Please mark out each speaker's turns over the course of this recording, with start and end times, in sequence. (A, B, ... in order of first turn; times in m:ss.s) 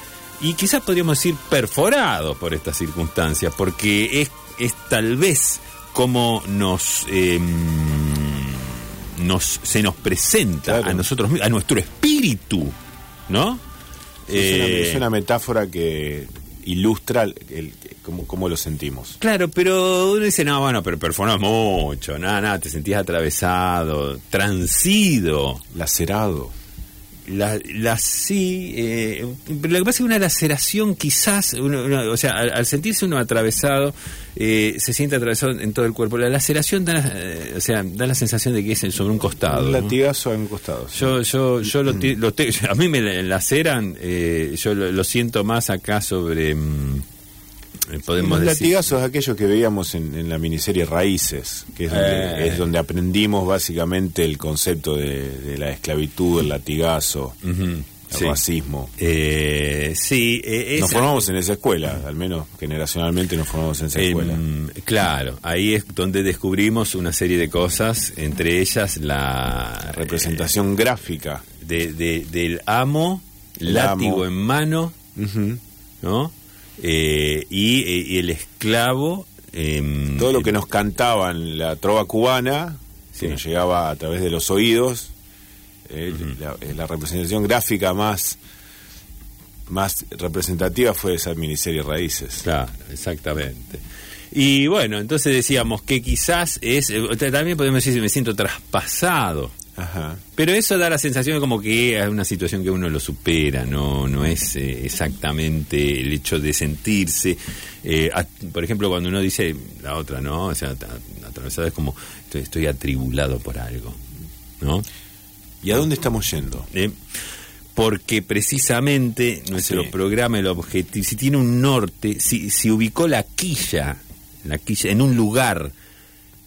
0:00.4-0:12.7 A
0:10.6-0:11.1 B
0:13.3-0:13.6 A
0:14.3-0:15.0 A
0:14.3-0:19.2 B
0:19.2-0:25.6 A
0:25.7-0:26.5 B
0:27.2-0:39.9 A
0:39.5-0:41.1 B
0:40.9-0:47.0 A
0:47.9-0:48.8 A
0:48.2-0:57.4 B
0:51.9-0:52.6 A
0:57.4-0:58.4 A
0:58.1-0:58.9 B
0:59.0-1:01.2 A
1:00.8-1:04.4 B
1:04.0-1:10.5 A
1:09.9-1:11.4 B
1:11.6-1:15.0 A
1:13.6-1:14.2 B
1:15.1-1:15.6 B
1:16.0-1:20.5 A
1:20.2-1:25.1 B
1:25.9-1:28.4 B
1:29.7-1:32.4 B
1:32.4-1:39.5 A
1:39.8-1:40.2 B
1:40.3-1:54.0 A
1:54.6-1:54.8 A
1:55.6-1:56.7 B
1:56.7-1:57.0 A
1:57.8-2:05.7 A
1:59.5-1:59.9 B